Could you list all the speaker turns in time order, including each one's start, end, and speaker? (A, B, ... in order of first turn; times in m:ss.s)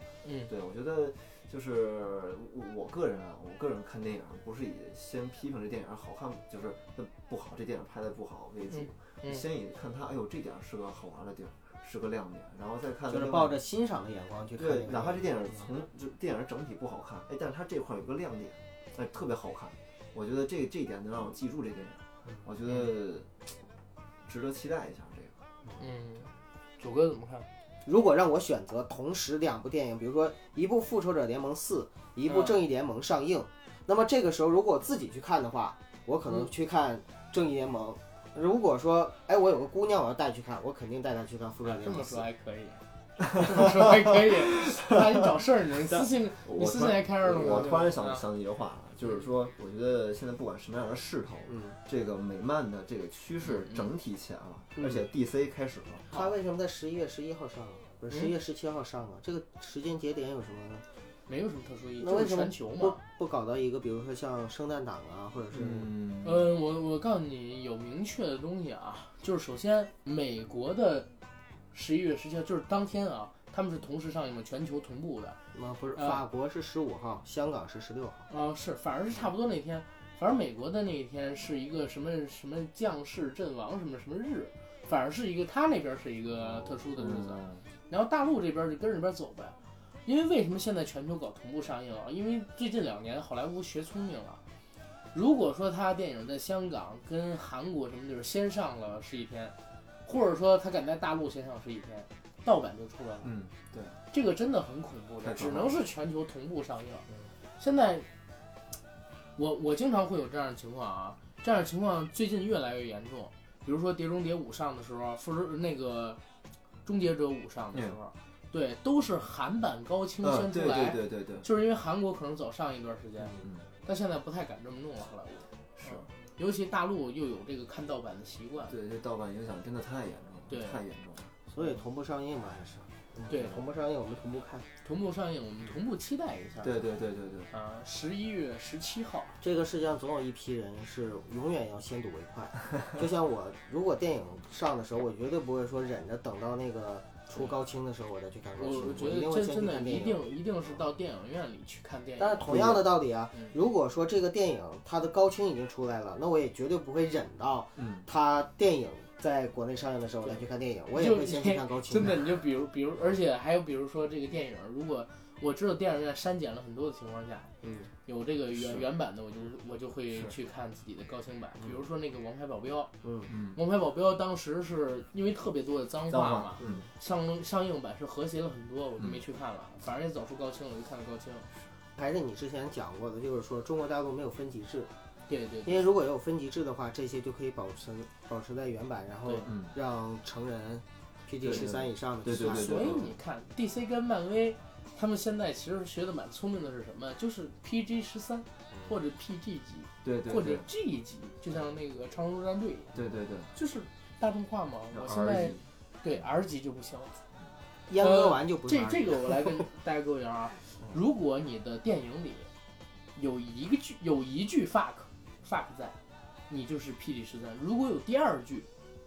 0:00.2-0:00.5 A
0:00.5-0:13.6 B
0:08.7-0:09.4 A
0:13.1-0:15.7 C
0:14.6-0:23.5 B
0:24.2-0:25.4 B
0:25.8-0:27.5 A
0:27.8-0:42.2 C
0:32.3-0:32.6 A
0:41.8-0:48.2 A
0:43.2-0:56.1 B
0:51.5-0:51.8 C
0:53.4-0:53.9 A
0:54.8-0:55.0 C
0:56.1-1:00.8 C
1:01.3-1:03.0 A
1:02.0-1:05.9 C
1:05.5-1:06.5 B
1:06.2-1:11.1 A
1:11.7-1:15.4 A
1:15.5-1:18.2 C
1:15.9-1:16.2 A
1:18.3-1:34.4 A
1:26.4-1:27.6 B
1:35.1-1:43.3 A
1:43.2-1:44.0 B
1:44.1-1:47.0 A
1:45.2-1:45.8 B
1:47.6-1:48.1 A
1:49.4-1:56.2 A
1:56.8-2:08.7 A
2:00.2-2:01.5 B
2:03.4-2:03.6 B
2:08.7-2:11.3 B
2:10.5-2:10.8 A
2:11.5-2:14.6 C
2:13.3-2:13.6 A
2:14.8-2:16.8 A
2:16.6-2:17.5 B
2:17.5-2:19.4 A
2:19.4-2:30.2 C
2:28.6-2:32.5 A
2:32.2-2:42.2 C
2:32.4-2:32.9 B
2:37.8-2:38.1 B
2:40.9-2:47.5 A
2:47.6-2:47.9 C
2:48.0-2:52.9 A
2:48.5-2:48.9 B
2:53.0-2:53.3 C
2:53.3-2:53.6 B
2:53.5-3:01.5 A
2:56.1-2:56.9 B
3:02.0-3:04.9 C
3:05.3-3:05.9 A
3:05.6-3:13.1 C
3:09.4-3:09.7 B
3:11.4-3:13.1 B
3:12.4-3:23.0 A
3:20.0-3:20.6 B
3:22.9-3:23.5 B
3:23.5-3:27.1 A
3:24.9-3:25.6 B
3:27.9-3:29.6 C
3:28.0-3:32.5 A
3:33.1-3:36.0 A
3:36.5-3:38.7 A